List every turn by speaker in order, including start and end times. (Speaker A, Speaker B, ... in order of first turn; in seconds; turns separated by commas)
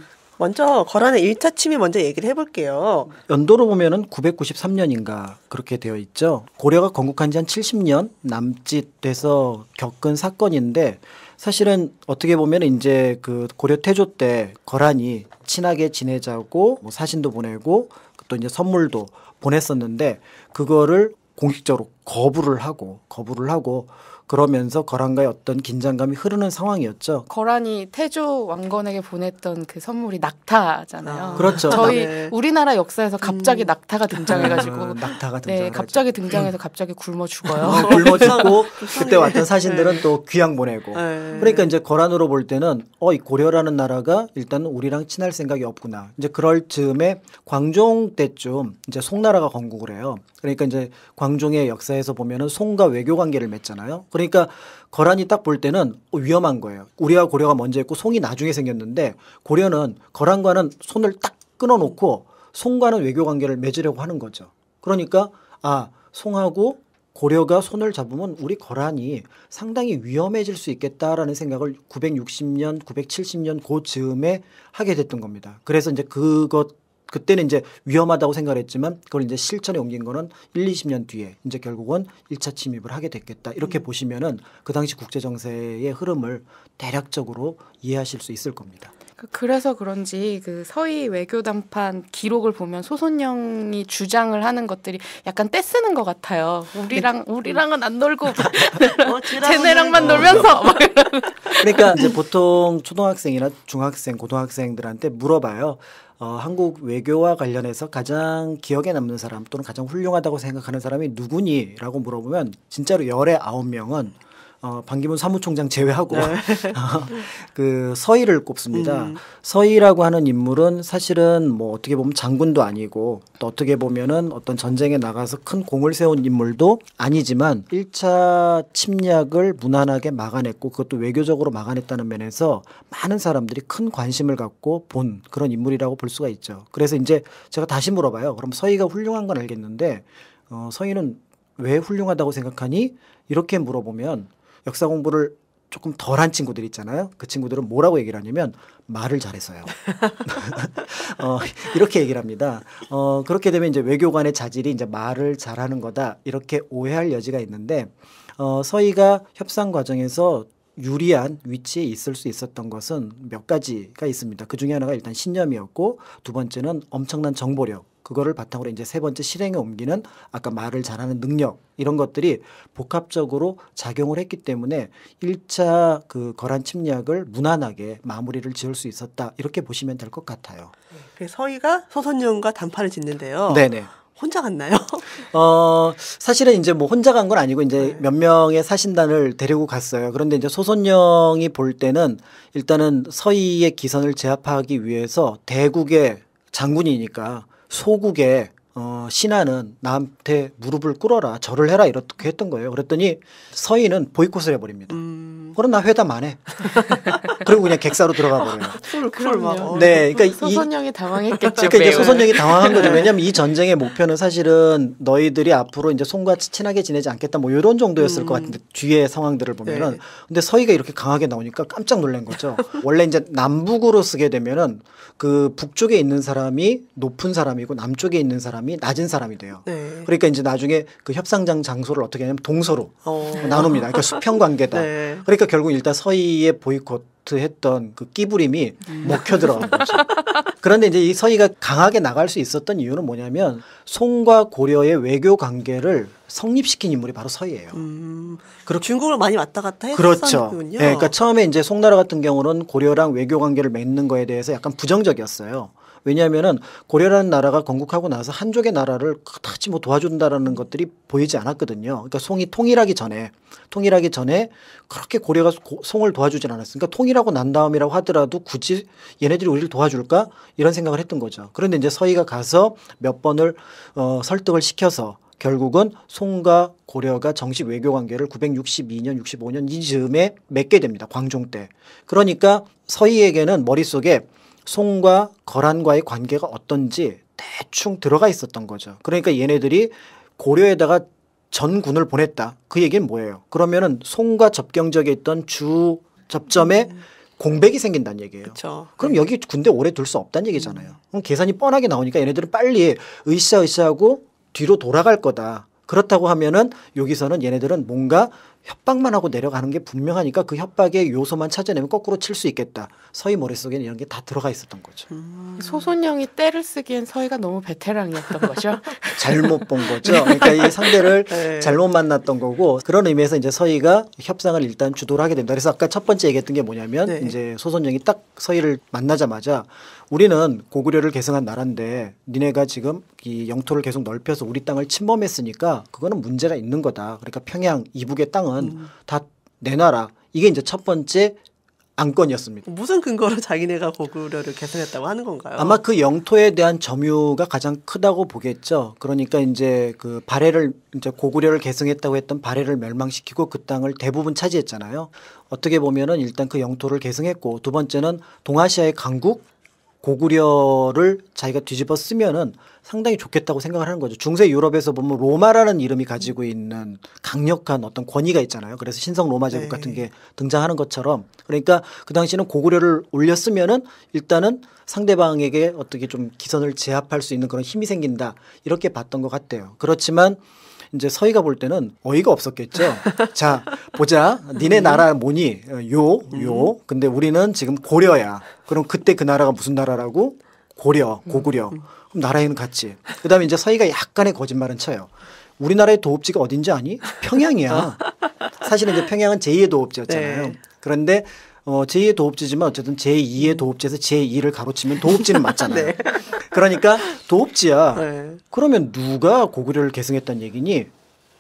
Speaker A: 0.4-3.1, Speaker B: 3.3-27.3, Speaker C: 27.3-38.3, Speaker A: 31.0-32.3, Speaker B: 31.4-32.1, Speaker A: 33.2-34.6, Speaker B: 34.3-36.1, Speaker A: 37.6-40.0, Speaker B: 37.6-88.9, Speaker A: 40.9-41.7, Speaker C: 89.2-102.1, Speaker A: 99.0-100.8, Speaker B: 100.0-100.5, Speaker B: 101.6-180.7, Speaker A: 116.1-116.8, Speaker A: 118.7-119.2, Speaker A: 180.9-185.2, Speaker B: 183.5-183.9, Speaker B: 185.2-205.0, Speaker A: 187.8-188.0, Speaker A: 204.9-205.6, Speaker B: 205.6-208.8, Speaker A: 206.7-207.2, Speaker A: 208.6-210.1, Speaker C: 208.9-213.1, Speaker B: 209.7-210.7, Speaker A: 211.3-213.1, Speaker B: 211.6-247.8, Speaker A: 218.0-218.6, Speaker A: 219.7-220.0, Speaker A: 229.7-230.1, Speaker A: 233.0-235.3, Speaker A: 239.0-240.1, Speaker A: 247.7-251.1, Speaker B: 249.9-315.1, Speaker A: 298.5-299.2, Speaker A: 315.1-315.9, Speaker C: 315.6-319.8, Speaker B: 319.2-341.4, Speaker A: 320.1-321.8, Speaker A: 327.1-327.4, Speaker A: 338.6-338.9, Speaker B: 342.0-342.7, Speaker A: 342.6-345.8, Speaker B: 345.6-359.5, Speaker B: 360.0-410.9, Speaker A: 369.5-370.1, Speaker A: 384.7-385.0, Speaker A: 386.3-386.7, Speaker A: 397.7-398.3, Speaker A: 400.1-400.6, Speaker A: 405.1-406.4, Speaker A: 408.0-408.4